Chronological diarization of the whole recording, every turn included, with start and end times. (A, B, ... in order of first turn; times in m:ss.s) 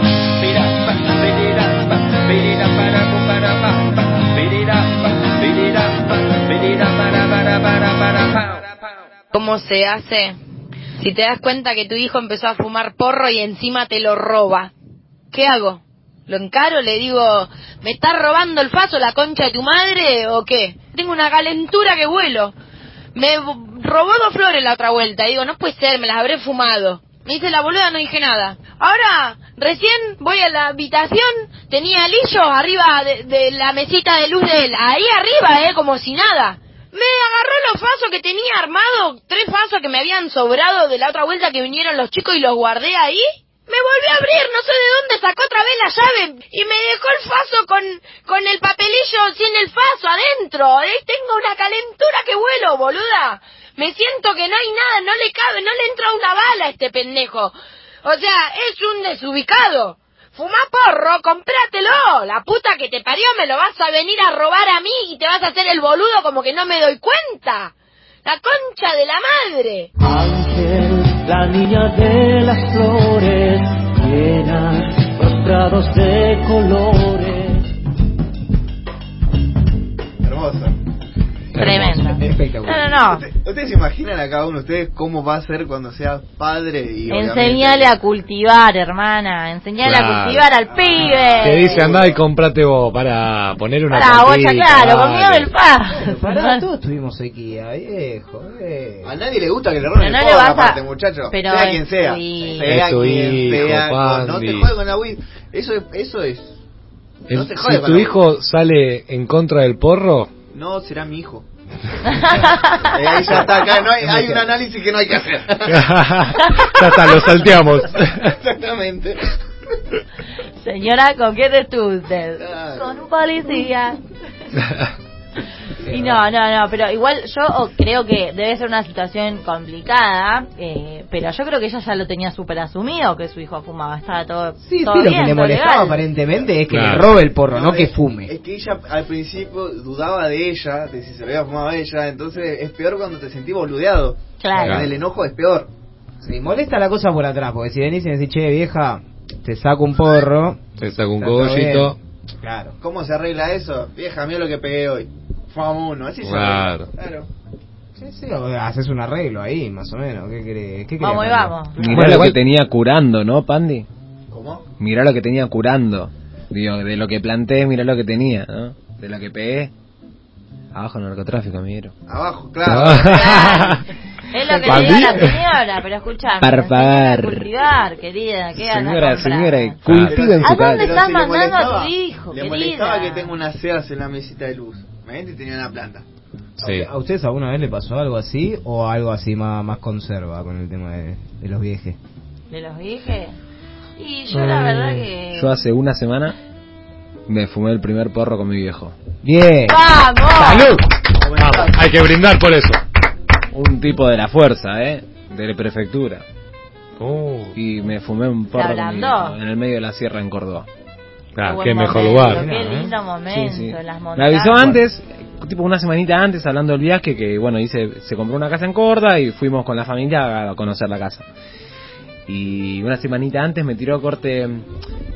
0:00.4-0:08.6 A
0:09.3-0:10.4 B
0:11.0-0:14.7 B
0:15.3-0:22.6 B
0:23.2-1:07.7 B
1:08.2-1:09.9 B
1:10.1-1:17.5 C
1:15.2-1:15.5 B
1:20.2-1:20.8 D
1:21.6-1:22.1 E
1:21.6-1:23.2 F
1:22.1-1:22.9 G
1:23.0-1:27.9 D
1:27.1-1:31.9 F
1:29.8-1:30.5 E
1:30.7-1:32.2 D
1:31.4-1:35.5 E
1:33.9-1:36.6 F
1:35.9-1:39.2 G
1:39.0-1:46.6 D
1:39.9-1:42.8 F
1:42.6-1:44.8 E
1:47.3-1:50.3 E
1:47.3-1:48.2 D
1:50.5-1:51.5 D
1:52.0-1:53.0 F
1:52.8-1:55.9 D
1:54.0-1:54.4 G
1:55.7-1:58.4 E
1:56.4-1:56.8 F
1:58.2-1:59.3 D
2:00.6-2:04.0 F
2:02.4-2:02.9 D
2:05.9-2:16.0 F
2:05.9-2:06.2 G
2:14.6-2:18.3 G
2:16.7-2:17.1 E
2:17.5-2:25.7 D
2:24.4-2:24.8 F
2:26.2-2:30.6 G
2:30.8-2:32.0 E
2:31.2-2:32.8 G
2:32.8-2:37.3 D
2:36.2-2:36.9 E
2:38.0-2:41.6 G
2:41.0-2:41.9 F
2:41.8-2:43.9 H
2:41.9-2:42.4 E
2:44.3-2:44.6 D
2:44.8-2:49.7 H
2:50.7-2:51.9 H
2:52.1-2:53.7 D
2:52.6-2:53.8 E
2:53.1-2:59.8 F
2:54.7-2:55.2 H
2:54.7-2:55.4 E
2:56.4-2:57.5 H
2:58.6-3:01.0 H
2:59.8-3:00.2 E
3:00.1-3:06.0 D
3:00.4-3:03.4 F
3:06.6-3:06.9 E
3:06.6-3:12.0 G
3:12.5-3:13.4 F
3:14.0-3:15.5 F
3:14.4-3:14.9 E
3:15.3-3:16.4 H
3:17.3-3:18.9 H
3:19.2-3:20.9 G
3:19.7-3:20.7 F
3:21.2-3:21.8 D
3:21.3-3:22.8 E
3:23.5-3:26.2 H
3:27.0-3:27.6 E
3:27.6-3:30.7 H
3:28.6-3:29.4 F
3:31.4-3:32.5 E
3:31.4-3:34.7 F
3:32.3-3:32.9 G
3:33.3-3:41.3 H
3:42.3-3:44.7 H